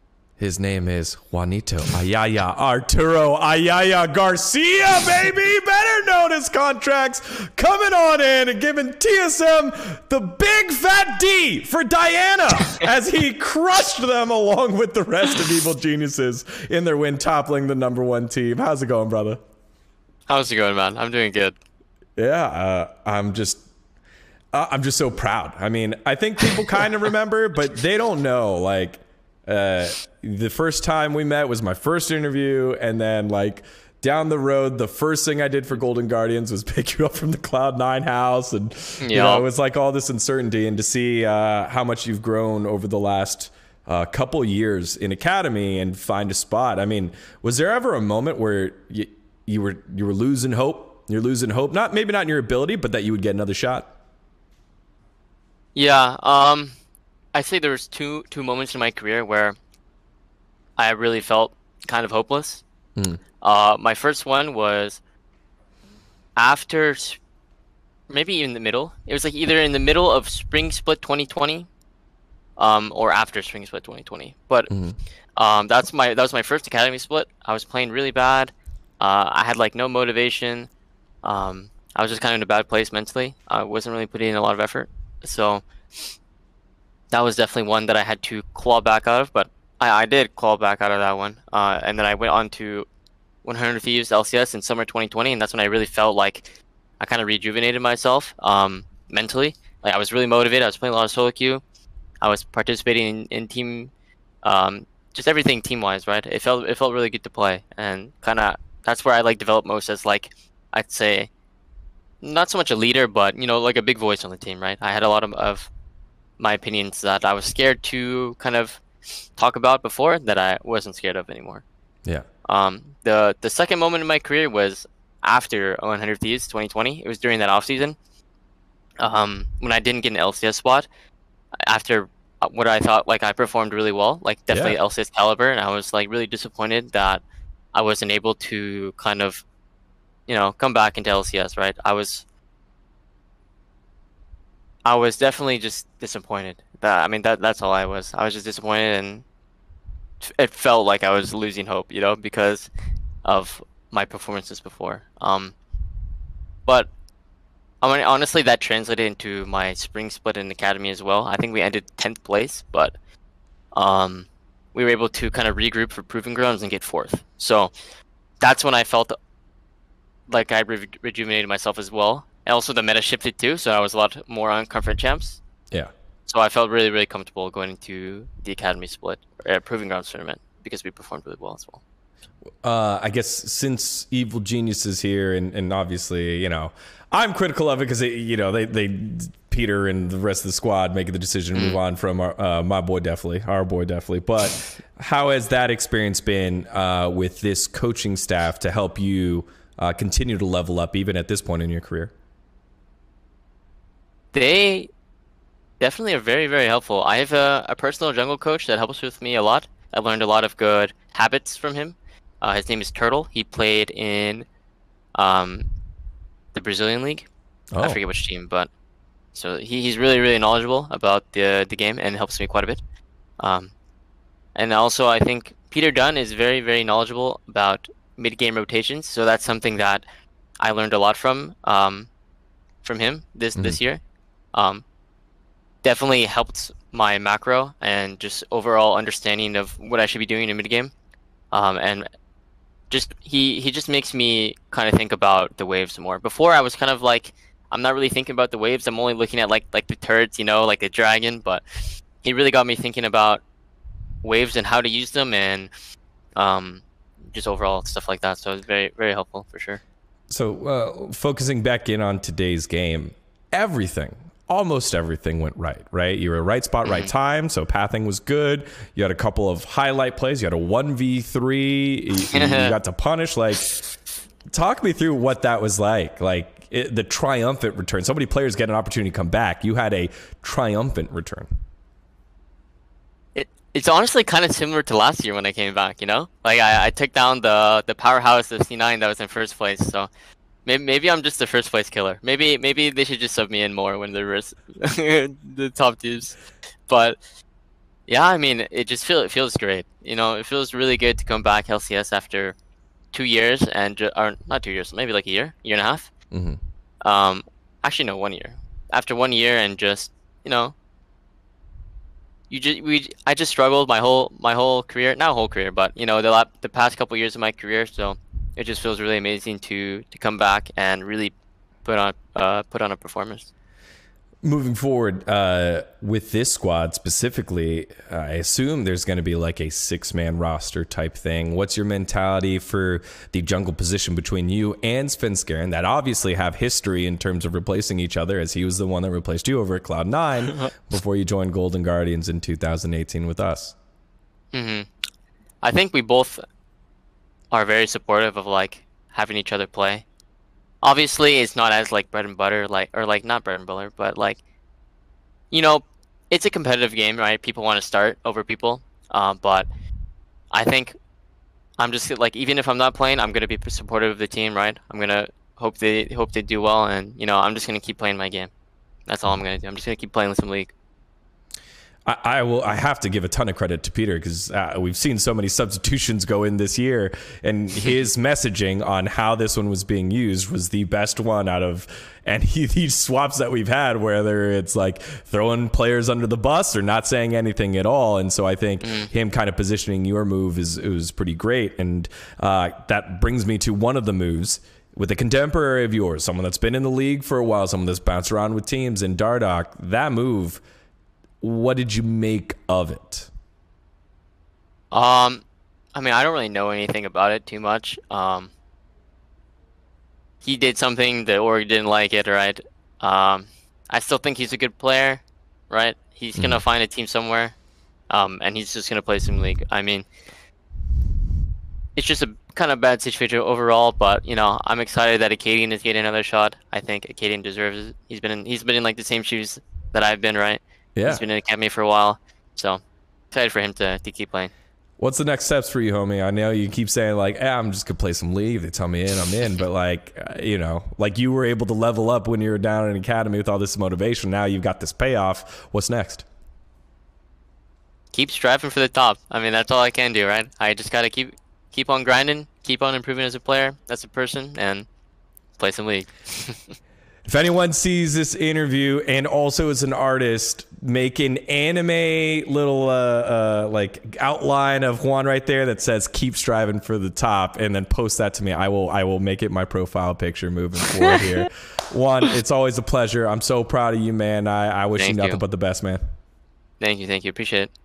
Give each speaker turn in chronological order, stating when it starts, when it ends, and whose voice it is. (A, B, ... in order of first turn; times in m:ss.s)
0:00.4-0:19.4 A
0:20.3-0:21.6 B
0:22.2-0:23.6 A
0:24.5-0:53.9 A
0:39.0-0:39.4 B
0:55.8-0:56.8 B
0:57.3-0:59.6 B
1:00.8-1:02.6 B
1:03.4-1:05.0 B
1:06.4-1:07.2 B
1:08.1-1:11.7 B
1:12.6-1:14.7 B
1:14.7-1:15.0 A
1:15.4-1:20.7 B
1:21.2-1:25.6 B
1:27.1-1:32.9 B
1:33.4-1:36.5 B
1:37.0-1:41.6 B
1:42.2-1:43.9 B
1:44.4-1:51.3 B
1:52.2-1:55.7 B
1:56.4-1:58.8 B
1:59.4-2:01.6 B
2:02.5-2:08.0 B
2:09.0-2:10.9 B
2:11.7-2:17.2 B
2:14.5-2:14.8 A
2:17.7-2:19.4 B
2:20.3-2:22.2 B
2:24.8-2:29.2 B
2:30.2-2:32.7 B
2:33.2-2:35.6 B
2:36.7-2:36.9 B
2:37.8-2:43.0 B
2:43.7-2:47.7 B
2:48.4-2:49.2 B
2:50.3-2:55.4 B
2:56.3-3:01.8 B
3:02.6-3:22.1 A
3:11.5-3:11.8 B
3:24.3-3:24.9 B
3:25.8-3:34.5 B
3:35.2-3:35.7 B
3:36.5-3:38.7 B
3:37.8-3:38.0 A
3:39.3-3:42.8 B
3:43.4-3:43.7 B
3:44.6-3:50.0 B
3:50.6-3:52.1 B
3:52.8-3:54.0 B
3:54.5-3:54.8 B
3:55.8-4:00.9 B
4:01.5-4:02.1 B
4:02.9-4:11.6 B
4:12.2-4:13.4 B
4:14.2-4:15.7 B
4:16.4-4:19.8 B
4:20.3-4:33.8 A
4:26.8-4:27.1 B
4:32.3-4:32.8 B
4:34.5-4:41.5 A
4:43.4-4:50.1 B
4:50.6-4:56.4 B
4:56.9-4:57.2 B
4:58.1-5:02.6 B
5:03.1-5:06.1 B
5:06.3-5:06.6 A
5:07.0-5:10.8 B
5:12.5-5:23.5 B
5:24.4-5:43.8 A
5:44.5-5:44.9 B
5:45.6-5:46.4 B
5:47.5-5:50.0 B
5:50.8-5:54.4 B
5:55.5-5:59.7 B
6:00.5-6:01.0 B
6:01.8-6:08.5 B
6:09.1-6:10.7 B
6:12.0-6:40.6 A
6:28.8-6:29.1 B
6:41.4-6:43.3 A
6:44.9-6:48.5 B
6:50.4-6:57.6 B
6:56.4-6:56.6 A
6:58.1-7:00.1 B
7:02.0-7:12.8 B
7:11.0-7:11.2 A
7:13.3-7:14.5 B
7:15.0-7:26.3 A
7:28.1-7:34.9 B
7:35.6-7:36.8 B
7:37.3-7:56.0 A
7:55.0-7:55.4 B
7:56.8-7:57.7 B